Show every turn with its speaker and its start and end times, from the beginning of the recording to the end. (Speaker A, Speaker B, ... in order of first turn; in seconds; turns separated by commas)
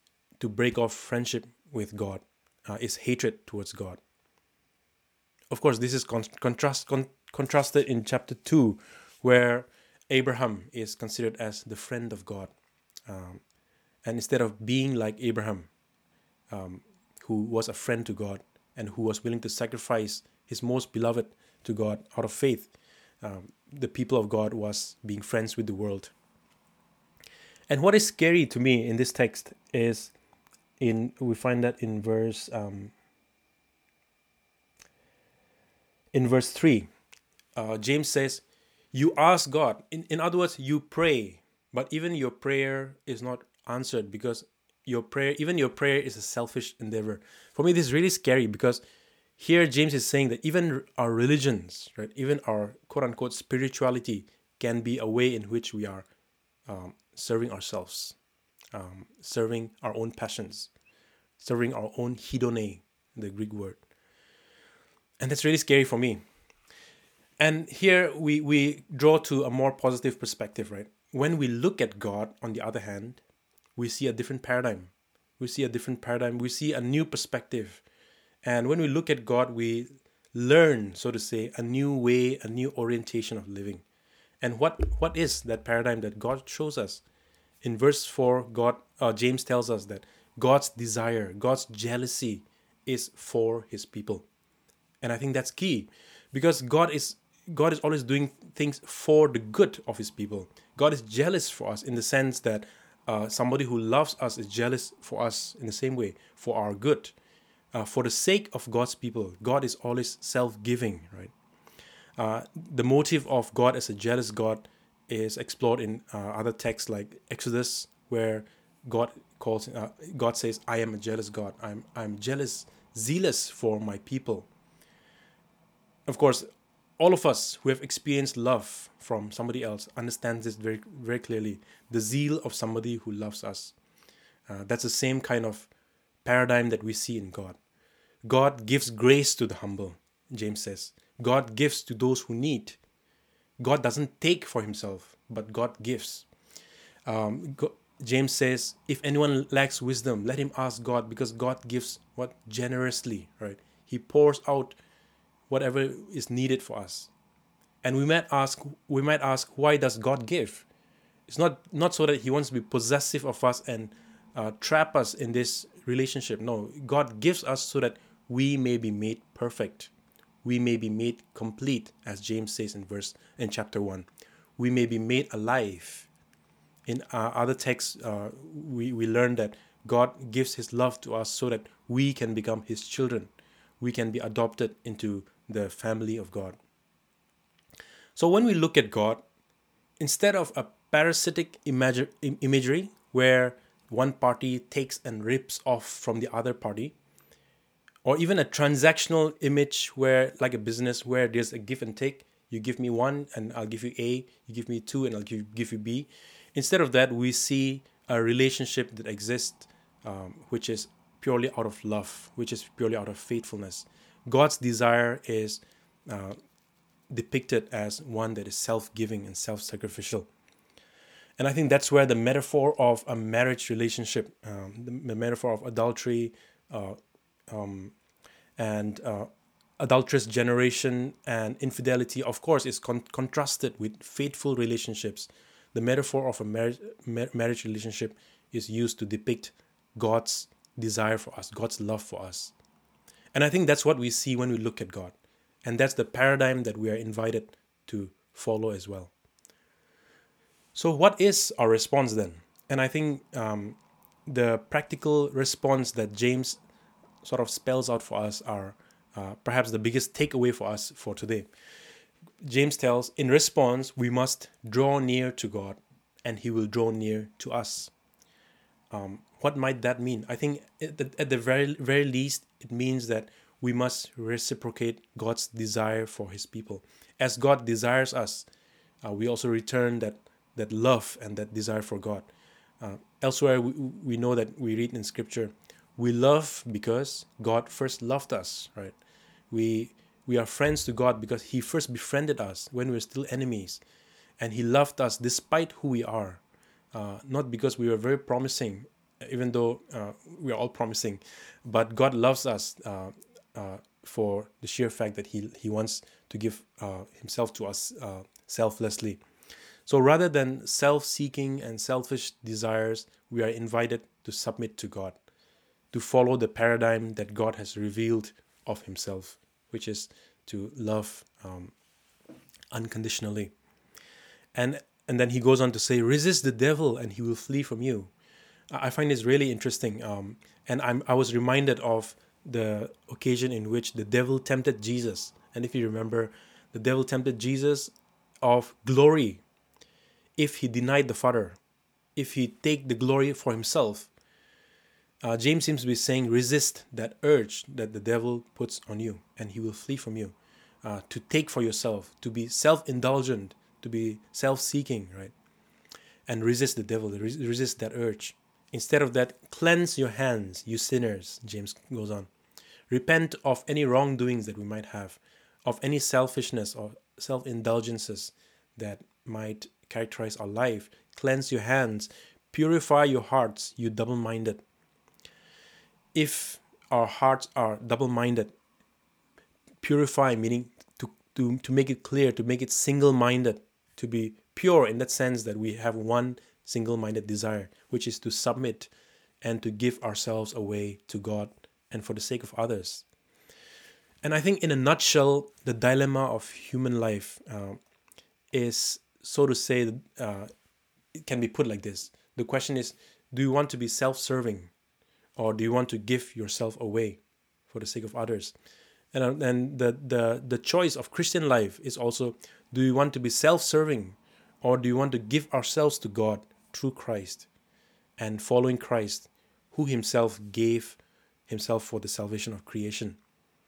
Speaker A: 0.4-4.0, Speaker A: 5.5-12.5, Speaker A: 13.1-13.4, Speaker A: 14.1-15.7, Speaker A: 16.5-22.7, Speaker A: 23.2-26.1, Speaker A: 27.7-30.1, Speaker A: 30.8-32.9, Speaker A: 36.1-36.9, Speaker A: 37.6-48.8, Speaker A: 49.4-56.1, Speaker A: 56.7-58.2, Speaker A: 58.7-60.7, Speaker A: 61.4-63.8, Speaker A: 65.2-66.2, Speaker A: 67.4-73.2, Speaker A: 73.8-77.8, Speaker A: 78.4-83.8, Speaker A: 84.4-87.0, Speaker A: 87.6-94.3, Speaker A: 95.0-107.1, Speaker A: 107.7-111.3, Speaker A: 112.2-124.5, Speaker A: 126.1-126.5, Speaker A: 127.0-133.8, Speaker A: 134.5-135.7, Speaker A: 136.2-137.6, Speaker A: 138.2-142.8, Speaker A: 143.6-146.3, Speaker A: 147.1-154.8, Speaker A: 155.5-157.1, Speaker A: 157.8-160.7, Speaker A: 161.3-169.9, Speaker A: 170.4-174.1, Speaker A: 174.6-176.1, Speaker A: 176.9-186.6, Speaker A: 188.2-189.2, Speaker A: 190.0-197.0, Speaker A: 198.1-216.4, Speaker A: 217.1-220.3, Speaker A: 221.4-227.0, Speaker A: 227.5-227.9, Speaker A: 228.6-242.5, Speaker A: 243.3-249.1, Speaker A: 250.8-256.6, Speaker A: 257.2-261.5, Speaker A: 262.4-267.9, Speaker A: 268.9-278.5, Speaker A: 279.0-282.3, Speaker A: 282.8-289.0, Speaker A: 289.5-293.8, Speaker A: 294.4-296.4, Speaker A: 296.9-309.2, Speaker A: 309.9-315.2, Speaker A: 315.9-321.7, Speaker A: 322.7-323.5, Speaker A: 324.6-328.1, Speaker A: 328.7-339.4, Speaker A: 340.4-341.6, Speaker A: 342.2-344.1, Speaker A: 345.2-355.3, Speaker A: 356.3-362.3, Speaker A: 362.9-374.6, Speaker A: 376.1-378.5, Speaker A: 379.8-388.9, Speaker A: 389.4-393.1, Speaker A: 394.2-397.8, Speaker A: 398.5-400.5, Speaker A: 401.1-404.7, Speaker A: 405.4-408.5, Speaker A: 409.1-417.5, Speaker A: 418.2-423.2